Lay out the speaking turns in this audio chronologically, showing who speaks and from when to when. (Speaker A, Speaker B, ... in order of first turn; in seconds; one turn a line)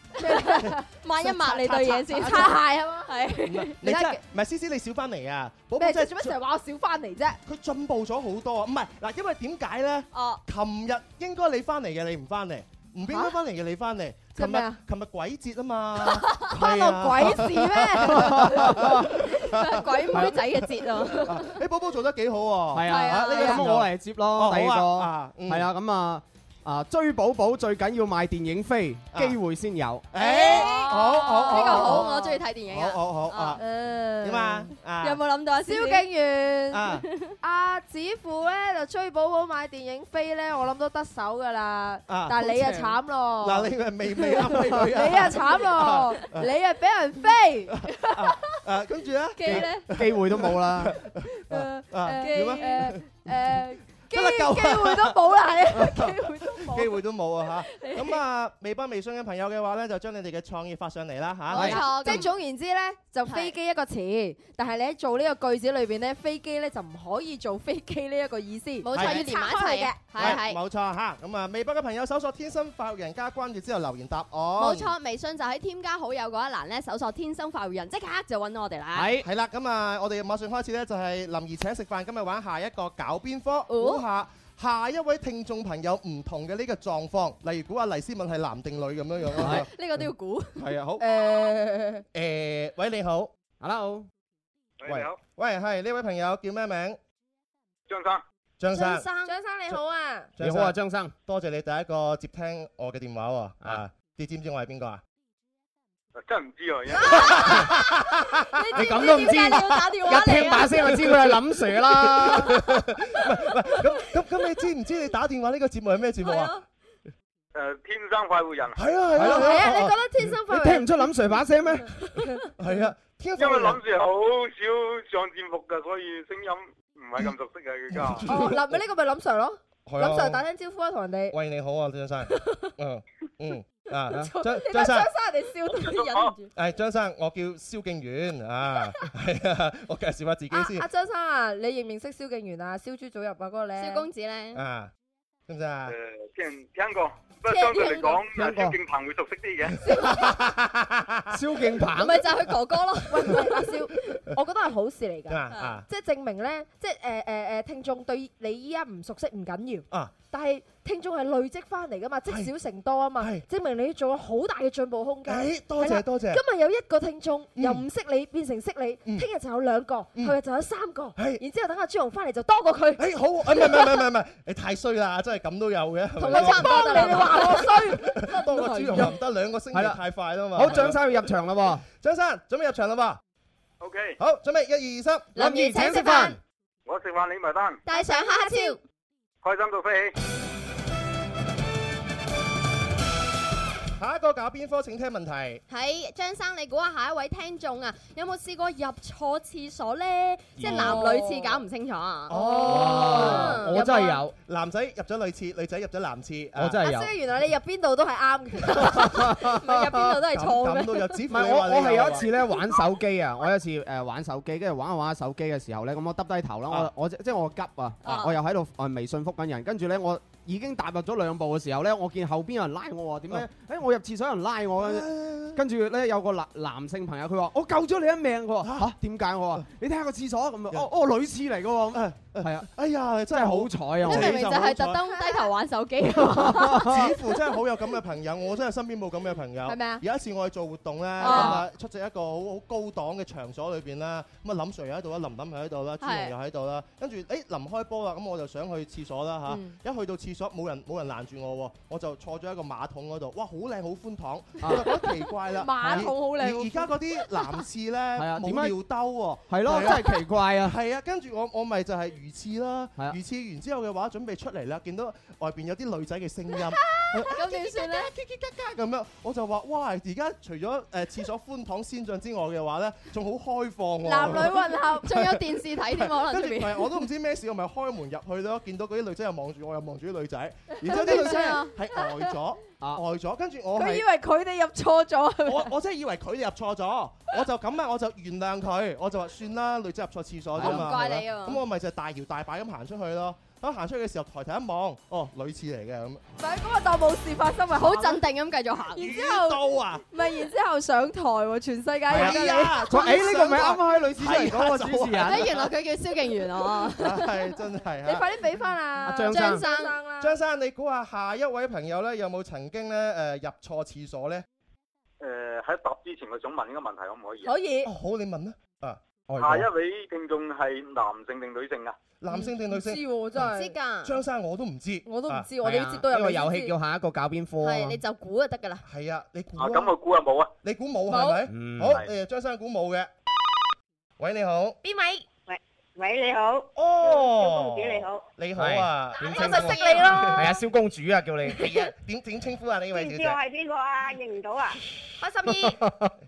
Speaker A: 0.2-0.8
Speaker B: 0.4-3.8
Speaker A: 1.4-3.2
Speaker C: 2.2-2.5
Speaker C: 3.5-6.3
Speaker A: 3.8-4.2
Speaker A: 5.8-7.4
Speaker C: 7.5-25.7
Speaker B: 10.1-10.4
Speaker A: 14.3-14.8
Speaker A: 16.5-18.9
Speaker D: 18.0-19.1
Speaker B: 19.4-21.5
Speaker D: 20.1-20.4
Speaker D: 22.7-30.1
Speaker B: 22.8-23.6
Speaker C: 30.1-33.6
Speaker B: 30.2-33.7
Speaker A: 30.4-32.3
Speaker A: 33.6-34.7
Speaker C: 34.2-35.2
Speaker B: 35.0-36.0
Speaker A: 35.6-36.8
Speaker C: 36.7-37.0
Speaker B: 37.0-37.3
Speaker A: 37.4-48.1
Speaker C: 42.1-46.5
Speaker C: 48.1-53.1
Speaker B: 49.4-49.8
Speaker D: 49.5-51.0
Speaker A: 51.3-56.9
Speaker B: 52.1-52.8
Speaker C: 54.1-55.2
Speaker C: 55.7-62.3
Speaker D: 61.5-61.8
Speaker B: 61.5-62.3
Speaker A: 61.5-70.4
Speaker B: 63.2-63.5
Speaker B: 68.8-70.6
Speaker C: 68.9-69.2
Speaker C: 70.2-74.9
Speaker B: 74.6-79.2
Speaker D: 78.9-79.3
Speaker C: 79.2-89.7
Speaker B: 83.7-84.0
Speaker D: 89.4-89.7
Speaker B: 89.4-90.6
Speaker C: 90.6-91.0
Speaker A: 91.0-92.0
Speaker C: 92.1-93.3
Speaker D: 93.6-94.1
Speaker E: 94.8-95.2
Speaker C: 94.8-97.0
Speaker E: 97.9-98.2
Speaker C: 98.6-99.1
Speaker B: 98.7-99.3
Speaker A: 99.2-100.3
Speaker C: 100.4-105.0
Speaker D: 100.4-101.1
Speaker E: 106.2-107.4
Speaker C: 107.0-109.3
Speaker B: 107.2-107.7
Speaker B: 108.6-110.7
Speaker D: 108.7-112.6
Speaker A: 108.8-110.8
Speaker C: 110.9-111.4
Speaker C: 112.0-116.6
Speaker B: 116.2-116.5
Speaker E: 117.5-118.8
Speaker C: 118.8-120.0
Speaker D: 119.1-119.7
Speaker A: 119.2-121.1
Speaker D: 120.5-122.0
Speaker C: 122.6-123.8
Speaker E: 123.4-128.5
Speaker C: 127.9-128.8
Speaker A: 128.2-131.3
Speaker C: 129.8-130.4
Speaker C: 131.3-135.1
Speaker A: 132.3-132.7
Speaker A: 134.1-136.5
Speaker E: 135.7-136.3
Speaker C: 136.5-140.8
Speaker A: 140.5-144.1
Speaker B: 143.8-144.6
Speaker C: 144.5-144.9
Speaker C: 145.5-145.9
Speaker E: 145.8-149.8
Speaker B: 147.5-148.2
Speaker D: 148.3-148.8
Speaker C: 149.9-151.3
Speaker D: 151.3-152.3
Speaker B: 151.9-153.6
Speaker A: 153.1-174.0
Speaker C: 155.3-155.8
Speaker B: 155.5-155.8
Speaker C: 163.2-163.4
Speaker C: 165.2-166.4
Speaker C: 167.6-167.8
Speaker C: 171.2-171.4
Speaker C: 173.0-181.3
Speaker A: 176.2-179.1
Speaker B: 176.2-177.7
Speaker D: 179.7-180.0
Speaker D: 180.5-181.8
Speaker C: 182.0-183.2
Speaker E: 183.8-184.2
Speaker C: 184.2-185.4
Speaker B: 185.3-186.4
Speaker D: 185.3-186.4
Speaker E: 186.8-187.8
Speaker B: 187.8-188.8
Speaker A: 187.9-188.8
Speaker E: 189.4-190.1
Speaker C: 194.0-195.6
Speaker B: 195.7-204.1
Speaker D: 200.6-201.0
Speaker A: 200.6-201.6
Speaker C: 202.3-203.8
Speaker A: 202.3-204.2
Speaker D: 202.6-204.3
Speaker C: 204.4-206.8
Speaker D: 206.5-207.1
Speaker A: 206.8-210.9
Speaker D: 208.8-210.0
Speaker B: 209.7-210.1
Speaker C: 210.2-212.3
Speaker D: 211.3-232.7
Speaker B: 218.0-218.3
Speaker C: 224.8-225.6
Speaker C: 228.6-228.9
Speaker C: 231.9-235.0
Speaker D: 233.3-234.4
Speaker B: 234.0-236.9
Speaker A: 235.1-235.5
Speaker D: 236.1-237.1
Speaker C: 236.8-284.1
Speaker A: 239.7-240.0
Speaker B: 241.2-241.6
Speaker A: 241.2-241.6
Speaker D: 241.2-241.6
Speaker B: 246.0-246.3
Speaker A: 249.5-249.8
Speaker D: 254.6-254.9
Speaker A: 255.0-257.6
Speaker D: 258.1-258.8
Speaker D: 259.5-260.8
Speaker B: 266.9-268.1
Speaker A: 267.3-267.8
Speaker A: 274.1-275.1
Speaker B: 275.0-277.0
Speaker A: 280.9-282.1
Speaker B: 280.9-281.7
Speaker A: 283.8-285.7
Speaker C: 285.4-296.2
Speaker D: 290.5-290.9
Speaker B: 290.6-291.6
Speaker A: 296.4-298.2
Speaker B: 297.7-299.1
Speaker A: 298.9-302.8
Speaker C: 299.0-300.0
Speaker D: 302.1-305.5
Speaker C: 302.1-305.7
Speaker B: 305.2-307.3
Speaker C: 307.0-308.2
Speaker A: 308.0-310.4
Speaker D: 309.0-309.6
Speaker B: 309.3-310.0
Speaker C: 310.2-314.4
Speaker E: 315.2-317.5
Speaker A: 317.4-317.9
Speaker C: 317.8-319.7
Speaker D: 319.3-319.6
Speaker E: 319.4-321.9
Speaker C: 322.2-323.4
Speaker A: 322.3-323.7
Speaker B: 323.5-324.2
Speaker C: 324.0-325.5
Speaker A: 325.1-326.8
Speaker D: 325.6-328.0
Speaker B: 327.6-328.8
Speaker C: 328.9-329.9
Speaker E: 329.6-330.5
Speaker C: 330.6-333.1
Speaker A: 331.1-331.4
Speaker D: 331.5-332.0
Speaker C: 334.2-334.8
Speaker B: 334.8-335.2
Speaker F: 335.5-338.2
Speaker C: 336.8-340.5
Speaker D: 338.6-339.6
Speaker B: 339.2-340.1
Speaker A: 339.2-340.5
Speaker D: 340.3-341.6
Speaker C: 341.6-343.4
Speaker F: 342.9-344.8
Speaker A: 345.2-345.6
Speaker D: 345.4-346.1